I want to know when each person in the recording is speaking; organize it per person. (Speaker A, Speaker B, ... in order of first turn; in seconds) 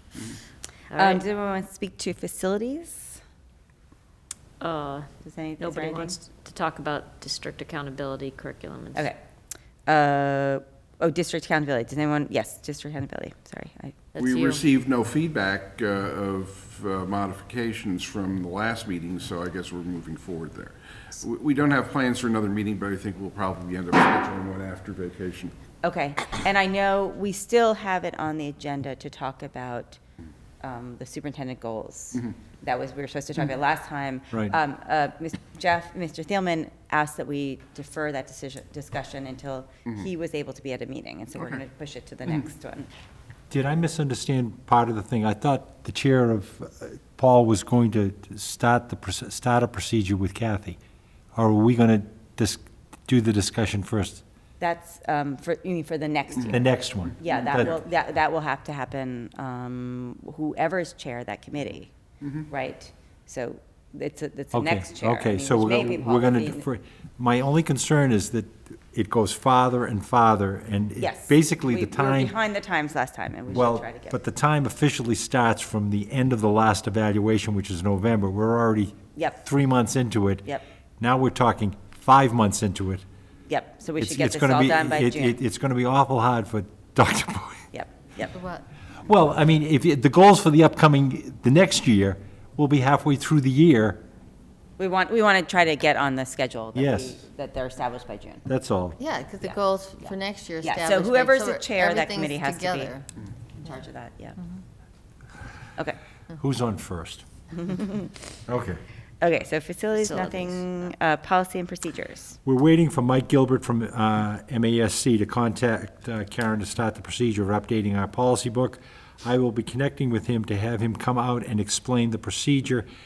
Speaker A: 0.9-1.2, 4.6-5.1, 5.6-9.1, 14.1-14.6, 110.1-110.5
Speaker B: 0.9-3.2, 5.2-6.2, 8.9-9.2, 9.8-14.0, 25.8-30.0, 30.6-42.9, 54.6-61.9, 62.5-66.7, 71.0-74.2, 79.1-79.4, 83.5-85.4, 87.7-88.3, 94.8-98.4, 99.4-102.9, 103.6-104.4, 107.5-108.1, 109.2-112.4
Speaker C: 14.2-25.5
Speaker D: 43.5-50.8, 51.3-54.2, 56.5-57.8, 64.5-72.3, 73.5-80.5, 81.0-83.0, 84.0-87.7, 89.0-94.0, 96.7-97.2, 98.5-99.0, 106.4-107.2, 108.5-108.8, 112.4-122.9
Speaker E: 88.3-88.6, 99.0-103.0